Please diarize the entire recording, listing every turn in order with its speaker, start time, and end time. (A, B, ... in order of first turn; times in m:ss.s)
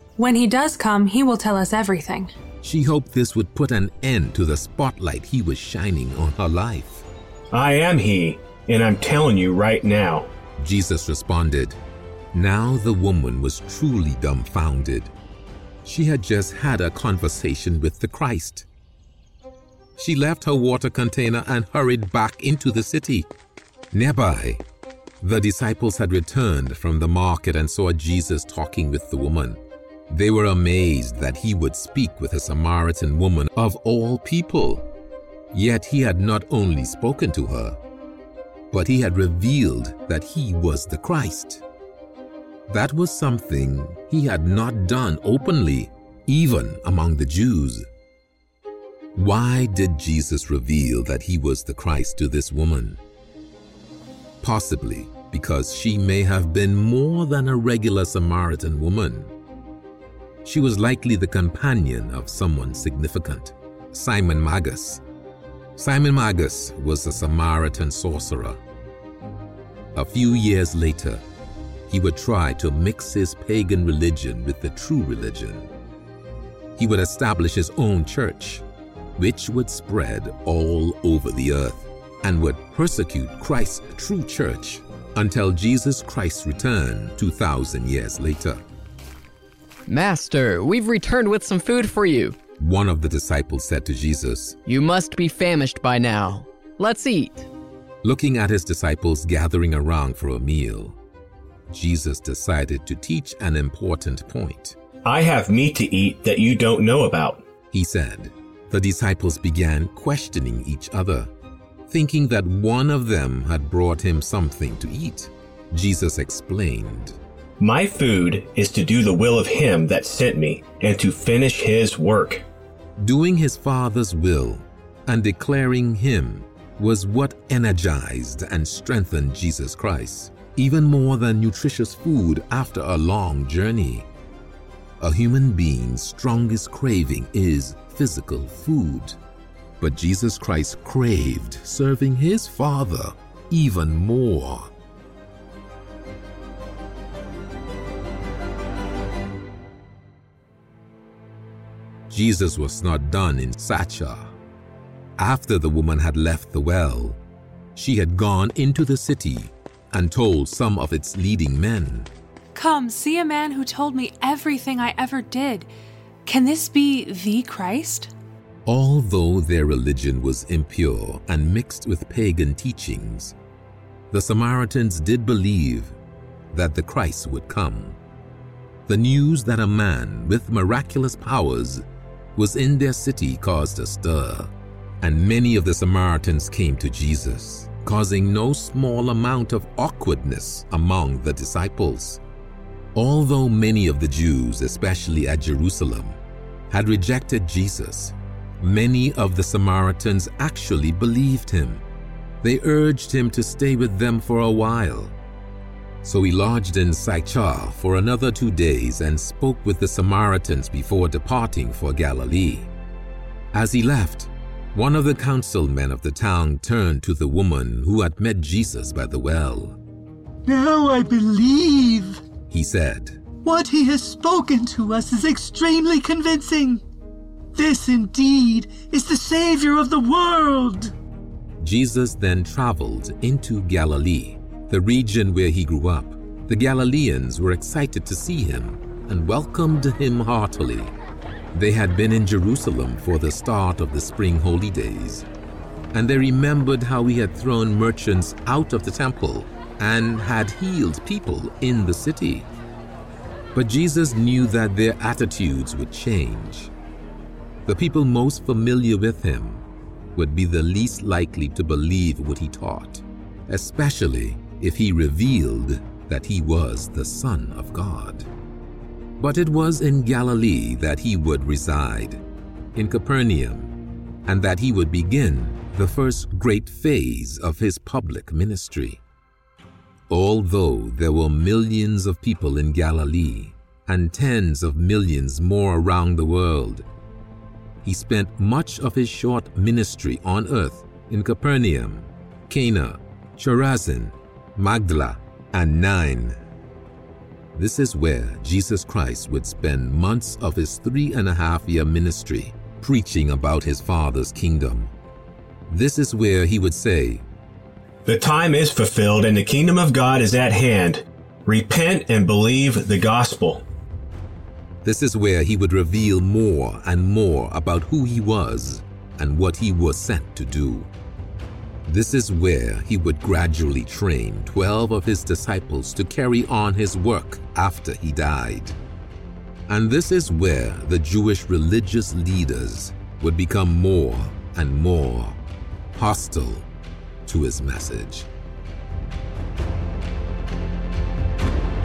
0:00.2-0:02.3 A
0:02.6-0:07.1 B
0:07.5-0:10.3 C
0:10.6-0:11.8 B
0:12.3-0:15.1 B
0:15.8-0:18.7 B
0:20.0-0:23.3 B
0:23.9-0:24.6 B
0:25.2-0:29.6 B
0:30.1-0:34.9 B
0:35.5-0:37.8 B
0:38.7-0:41.6 B
0:42.7-0:47.9 B
0:49.1-0:53.0 B
0:54.4-0:59.3 B
1:00.4-1:05.0 B
1:05.8-1:08.6 B
1:10.0-1:11.2 B
1:11.9-1:15.7 B
1:16.8-1:18.6 B
1:19.2-1:28.6 B
1:29.9-1:32.4 D
1:32.6-1:34.6 B
1:34.6-1:37.5 D
1:38.0-1:41.0 B
1:41.7-1:44.8 B
1:45.1-1:47.4 C
1:47.7-1:51.3 B
1:51.9-1:57.2 B
1:57.6-2:02.4 C
2:03.0-2:14.1 B
2:15.0-2:19.2 B
2:19.8-2:24.7 B
2:32.1-2:34.4 B
2:35.2-2:37.2 B
2:37.8-2:42.1 B
2:42.5-2:45.7 A
2:46.2-2:48.1 A
2:48.6-2:53.4 B
2:54.1-2:56.0 B
2:56.5-2:58.0 B
2:58.9-3:01.8 B
3:02.4-3:12.2 B
3:13.0-3:16.2 B
3:16.7-3:21.8 B
3:22.4-3:25.2 B
3:26.0-3:32.7 B
3:33.5-3:39.8 B
3:40.5-3:42.1 E
3:42.5-3:43.2 B
3:43.4-3:46.8 E
3:47.6-3:50.9 E
3:51.6-4:01.0 B
4:01.5-4:05.2 B
4:05.9-4:12.5 B
4:13.5-4:16.7 B
4:17.6-4:19.6 B
4:20.1-4:28.3 B
4:29.2-4:32.2 B
4:32.8-4:33.7 B
4:34.2-4:39.0 B
4:40.1-4:46.8 B
4:47.8-4:56.4 B
4:57.6-5:04.9 B
5:05.7-5:07.2 B
5:08.1-5:13.6 C
5:14.8-5:20.9 B
5:21.9-5:28.8 B
5:29.7-5:35.4 B
5:35.9-5:36.7 B
5:37.2-5:38.3 B